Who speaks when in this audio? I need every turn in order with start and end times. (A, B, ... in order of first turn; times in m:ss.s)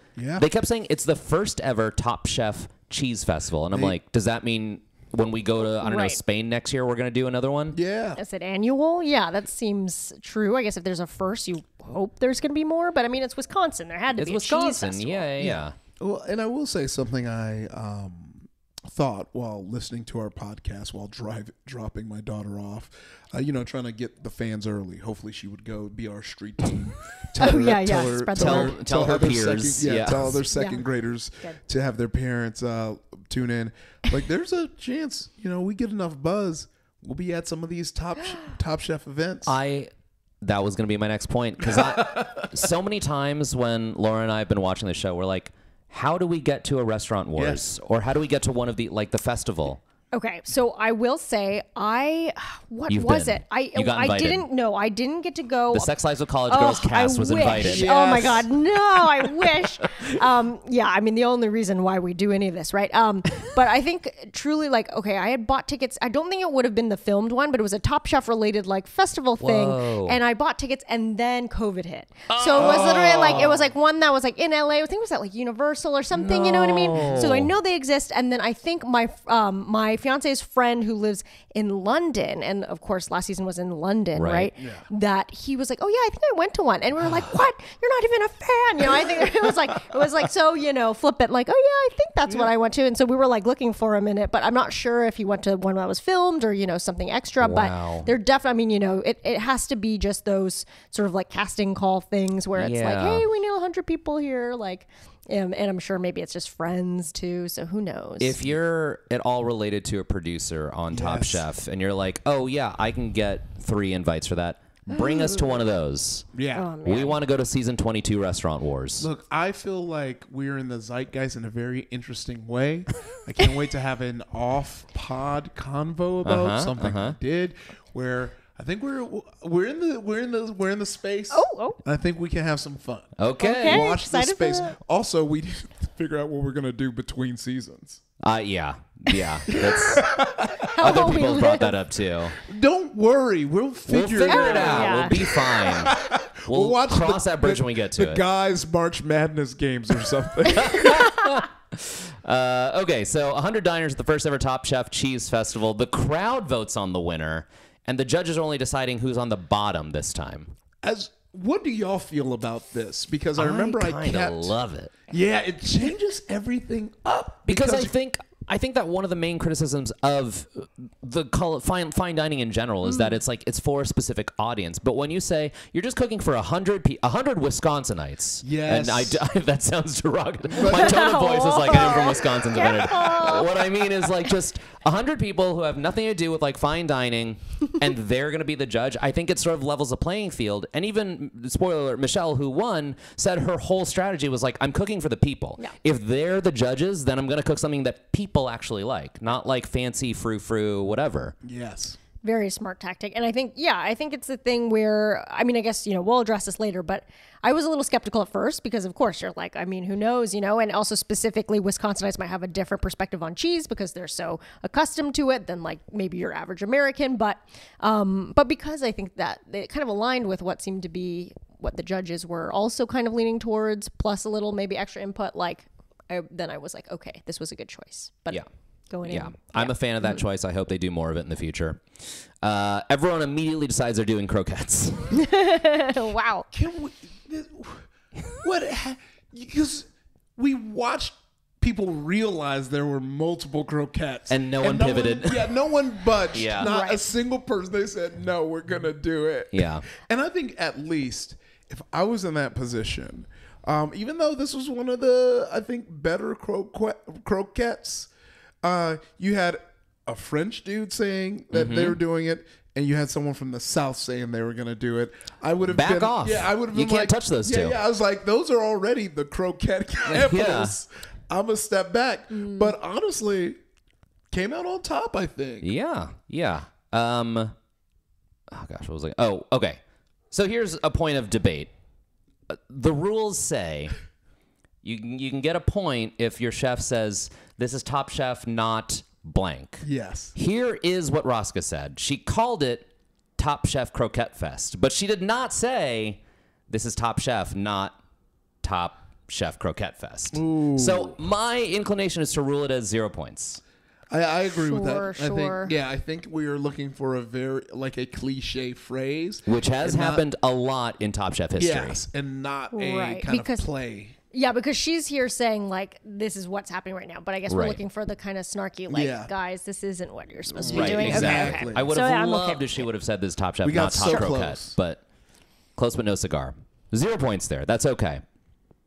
0:00.2-0:00.4 A
0:00.4-0:07.8 B
0:03.7-0:04.0 A
0:05.8-0:06.2 C
0:07.7-0:08.2 A
0:08.2-0:15.4 C
0:14.2-0:15.8 B
0:15.4-0:39.5 A
0:27.4-0:28.7 C
0:28.3-0:30.4 B
0:30.5-0:30.8 C
0:39.4-0:39.9 B
0:40.4-0:49.8 B
0:41.6-0:42.5 A
0:47.4-0:47.6 A
0:50.1-0:55.9 C
0:52.9-0:54.4 B
0:55.7-0:58.5 B
0:56.5-1:48.4 C
0:57.5-0:58.5 A
1:09.4-1:10.2 B
1:12.3-1:13.5 B
1:12.5-1:13.7 A
1:16.1-1:17.5 B
1:24.2-1:24.5 B
1:24.6-1:24.8 A
1:32.3-1:32.5 A
1:37.4-1:38.1 B
1:42.6-1:43.2 B
1:48.2-1:56.3 B
1:50.9-1:51.4 A
1:54.9-1:55.6 C
1:56.3-1:56.7 A
1:56.5-1:57.2 C
1:56.8-1:59.1 B
1:59.0-2:18.0 A
2:06.2-2:07.2 B
2:11.3-2:11.8 C
2:13.2-2:13.9 B
2:13.4-2:14.7 C
2:18.2-2:20.2 B
2:19.5-2:21.1 A
2:20.6-2:21.8 C
2:20.8-2:22.4 B
2:22.4-2:31.1 A
2:23.9-2:25.9 B
2:24.3-2:25.6 C
2:26.5-2:28.2 B
2:30.5-2:40.5 B
2:40.8-2:44.5 A
2:43.4-2:44.9 B
2:45.1-2:47.9 A
2:47.5-3:21.3 B
2:52.8-2:53.2 C
2:58.4-2:59.2 A
3:00.5-3:01.0 A
3:00.6-3:03.7 C
3:02.8-3:03.1 A
3:21.4-3:22.0 A
3:22.2-3:48.4 C
3:48.9-3:50.2 C
3:49.0-3:51.8 B
3:52.4-3:55.2 B
3:55.1-3:56.5 C
3:56.5-4:18.1 A
4:04.3-4:05.5 B
4:06.3-4:06.7 B
4:06.6-4:07.0 C
4:09.5-4:09.8 B
4:18.6-4:33.6 A
4:21.5-4:22.0 B
4:25.6-4:27.8 B
4:30.1-4:30.8 B
4:32.3-4:32.7 C
4:34.3-4:35.7 A
4:35.6-4:37.5 B
4:38.5-4:39.8 B
4:40.3-4:41.7 B
4:42.5-4:43.9 B
4:44.8-4:52.9 B
4:49.8-4:50.3 A
4:53.4-4:58.0 B
4:58.6-5:03.6 B
5:00.3-5:01.2 A
5:04.1-5:10.2 A
5:04.7-5:05.7 C
5:09.4-5:12.0 B
5:11.6-5:14.2 A
5:12.7-5:13.7 C
5:14.3-5:22.9 C
5:17.5-5:17.8 B
5:18.9-5:19.3 A
5:20.5-5:21.9 A
5:20.6-5:25.0 B
5:23.6-5:24.8 A
5:25.8-5:28.2 B